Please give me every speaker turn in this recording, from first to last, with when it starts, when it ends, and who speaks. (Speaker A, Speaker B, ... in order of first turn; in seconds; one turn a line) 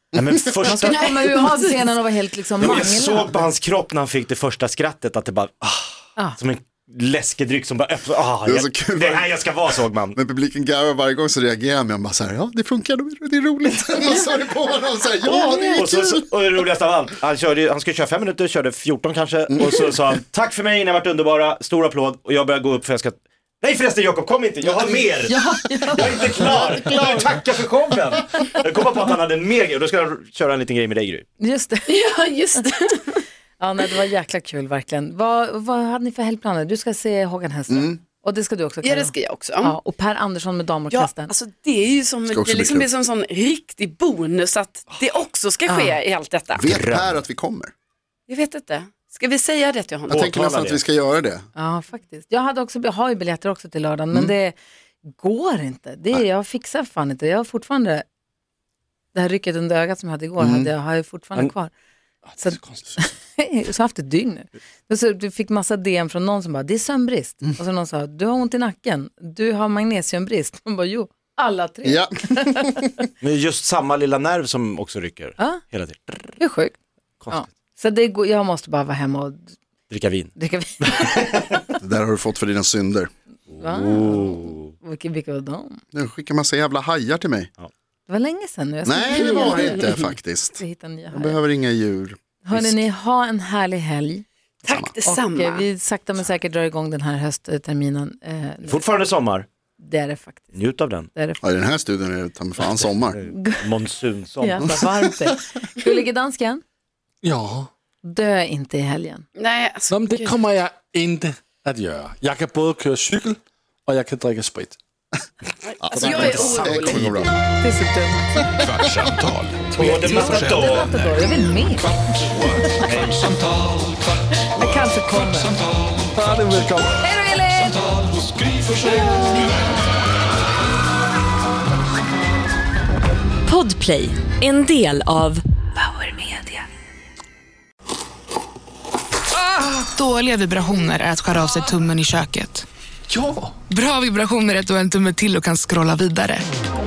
Speaker A: 0.1-1.2
Speaker B: 0.6-3.5
Speaker C: 0.8-1.7
Speaker A: 2.6-10.2
Speaker D: 8.5-16.3
Speaker A: 15.3-31.3
Speaker B: 25.2-27.1
Speaker B: 31.4-32.0
Speaker C: 31.9-33.2
Speaker B: 33.6-41.3
Speaker D: 37.7-38.0
Speaker C: 38.8-39.7
Speaker C: 40.9-46.6
Speaker D: 42.3-42.9
Speaker B: 45.7-46.0
Speaker D: 46.6-47.7
Speaker A: 46.7-47.2
Speaker C: 48.3-50.3
Speaker A: 50.1-50.8
Speaker D: 50.1-51.5
Speaker B: 51.6-54.6
Speaker B: 55.1-58.0
Speaker B: 59.1-61.7
Speaker A: 62.3-62.9
Speaker B: 62.4-72.8
Speaker D: 71.8-72.8
Speaker A: 73.2-76.4
Speaker B: 76.4-76.8
Speaker A: 77.2-77.5
Speaker B: 77.3-79.5
Speaker A: 79.9-81.6
Speaker B: 80.4-81.2
Speaker D: 81.8-83.1
Speaker A: 83.5-84.7
Speaker B: 83.6-85.8
Speaker D: 85.9-87.5
Speaker B: 88.1-91.4
Speaker D: 88.9-92.9
Speaker B: 92.5-94.2
Speaker C: 94.6-95.7
Speaker B: 95.0-98.8
Speaker A: 98.7-99.5
Speaker B: 99.8-100.5
Speaker A: 100.5-101.1
Speaker B: 101.1-101.4
Speaker D: 101.4-103.2
Speaker A: 102.8-104.8
Speaker B: 103.2-103.7
Speaker B: 104.4-106.6
Speaker E: 107.2-107.7
Speaker B: 108.0-109.2
Speaker C: 109.4-110.4
Speaker E: 109.9-114.8
Speaker C: 115.6-117.1
Speaker D: 115.8-117.3
Speaker E: 115.9-117.3
Speaker B: 117.6-118.4
Speaker F: 118.6-120.9
Speaker A: 119.7-120.9
Speaker B: 119.8-121.9
Speaker F: 122.3-122.8
Speaker B: 122.6-122.9
Speaker A: 122.8-123.3
Speaker B: 124.5-125.6
Speaker F: 124.5-125.0
Speaker E: 126.1-127.0
Speaker B: 127.0-128.0
Speaker E: 128.2-129.3
Speaker B: 128.8-129.5
Speaker G: 133.5-136.6
Speaker H: 139.7-146.5